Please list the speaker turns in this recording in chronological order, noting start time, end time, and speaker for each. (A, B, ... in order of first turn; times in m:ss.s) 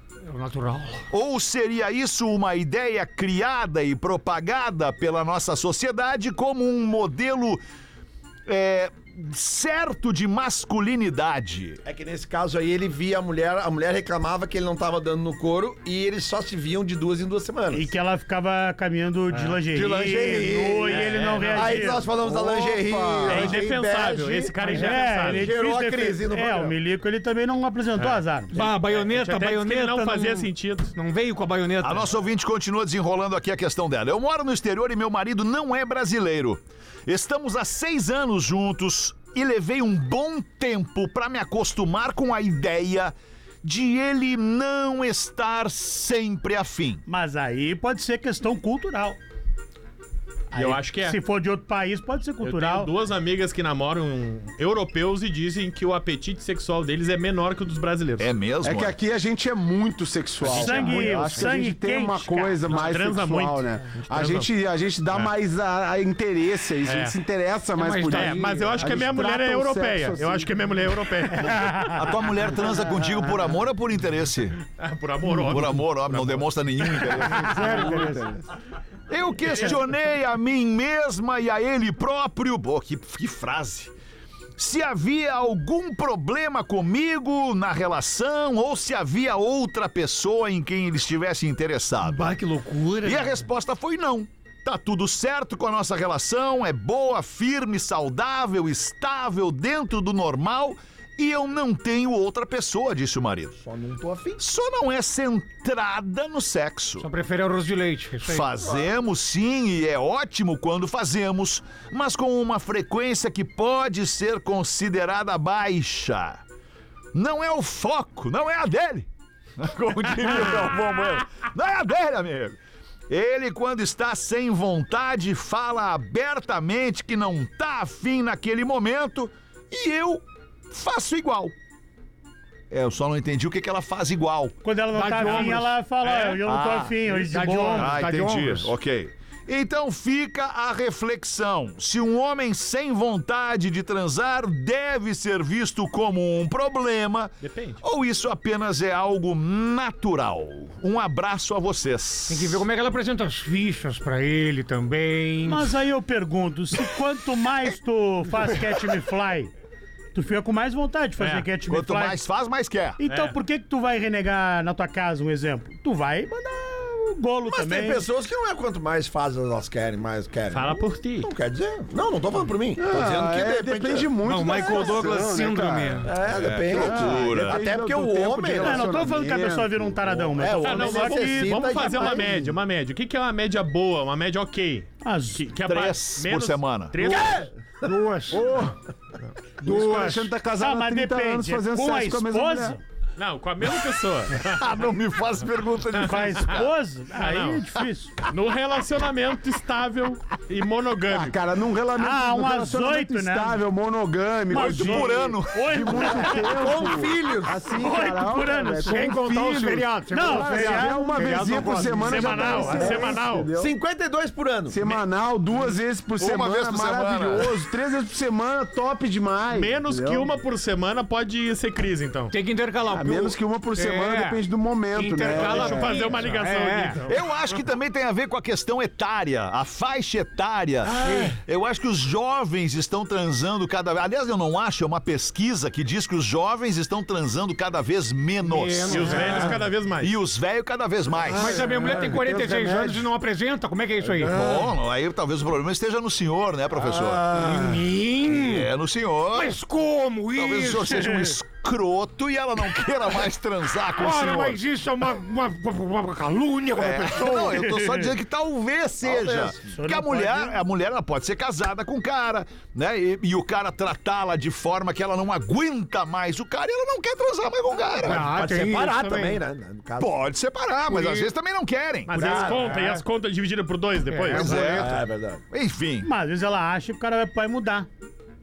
0:00.3-0:01.1 A
0:01.1-0:07.6 B
0:08.5-0:11.8 B
0:11.8-0:17.9 C
0:17.7-0:22.0 D
0:19.7-0:26.8 C
0:20.9-0:21.9 E
0:22.2-0:23.6 F
0:23.3-0:25.5 E
0:24.6-0:28.6 D
0:28.0-0:31.0 E
0:28.5-0:32.2 A
0:31.8-0:47.0 B
0:47.1-0:49.2 D
0:50.5-0:52.9 D
0:50.5-0:51.2 E
0:52.4-0:58.4 E
0:58.2-0:59.0 B
0:58.6-1:10.6 F
1:00.5-1:02.6 D
1:00.6-1:01.1 A
1:02.7-1:04.5 E
1:06.8-1:07.2 E
1:07.8-1:08.9 A
1:08.1-1:12.1 E
1:11.6-1:11.8 D
1:11.8-1:14.6 B
1:14.7-1:17.8 E
1:15.4-1:17.9 B
1:17.3-1:18.4 A
1:17.7-1:18.4 F
1:19.1-1:23.9 B
1:24.6-1:32.4 B
1:32.0-1:33.5 A
1:33.0-1:43.6 B
1:43.6-1:44.4 C
1:44.4-1:47.1 B
1:47.0-1:48.5 A
1:48.2-1:56.4 B
1:57.1-2:02.6 B
2:03.1-2:11.5 B
2:12.7-2:14.6 B
2:14.6-2:18.0 D
2:14.9-2:15.8 A
2:15.2-2:16.4 E
2:16.4-2:32.6 B
2:17.1-2:18.7 A
2:27.4-2:27.8 E
2:32.3-2:35.7 A
2:35.5-2:39.5 D
2:40.2-2:42.2 D
2:41.2-2:41.5 E
2:41.7-2:43.0 B
2:43.0-2:48.0 D
2:43.1-2:43.4 E
2:47.5-2:55.1 C
2:50.5-2:51.3 E
2:52.8-2:56.1 F
2:54.2-2:56.2 A
2:56.0-2:59.1 C
2:56.2-2:57.6 B
2:56.6-3:00.4 F
2:58.6-3:02.3 D
3:00.3-3:02.5 C
3:00.6-3:07.5 E
3:05.0-3:05.5 D
3:05.6-3:07.2 B
3:07.0-3:07.9 C
3:07.8-3:08.5 A
3:08.3-3:08.8 F
3:09.6-3:12.8 F
3:09.6-3:10.3 A
3:10.6-3:12.8 D
3:13.2-3:14.8 E
3:14.4-3:16.7 B
3:15.9-3:18.1 D
3:16.0-3:16.5 E
3:17.2-3:17.7 E
3:18.3-3:21.4 E
3:21.1-3:33.7 F
3:22.0-3:23.6 D
3:24.5-3:26.7 D
3:24.5-3:26.3 B
3:26.5-3:27.6 C
3:27.8-3:29.0 D
3:28.8-3:33.1 A
3:30.1-3:31.5 D
3:32.0-3:33.5 E
3:33.6-3:34.8 C
3:34.7-3:40.3 F
3:36.2-3:37.5 B
3:39.5-3:42.3 E
3:42.3-3:47.2 A
3:42.9-3:46.2 F
3:45.3-3:47.2 E
3:47.1-4:01.8 B
3:50.9-3:51.4 A
3:51.0-3:51.3 C
3:58.4-3:59.6 A
3:58.9-4:00.2 E
4:01.3-4:03.1 F
4:01.4-4:04.7 A
4:04.2-4:07.4 B
4:07.3-4:08.7 A
4:07.4-4:07.8 F
4:08.3-4:09.5 B
4:09.3-4:11.1 A
4:10.3-4:14.6 B
4:13.9-4:17.6 A
4:16.8-4:28.3 B
4:17.2-4:18.1 D
4:19.0-4:19.6 C
4:19.6-4:20.6 D
4:28.0-4:29.4 A
4:28.0-4:30.2 C
4:30.0-4:32.5 B
4:30.9-4:31.3 A
4:32.1-4:34.7 E
4:32.1-4:32.7 C
4:32.2-4:33.0 A
4:34.1-4:35.0 A
4:34.3-4:36.1 B
4:34.7-4:35.4 C
4:36.0-4:37.9 D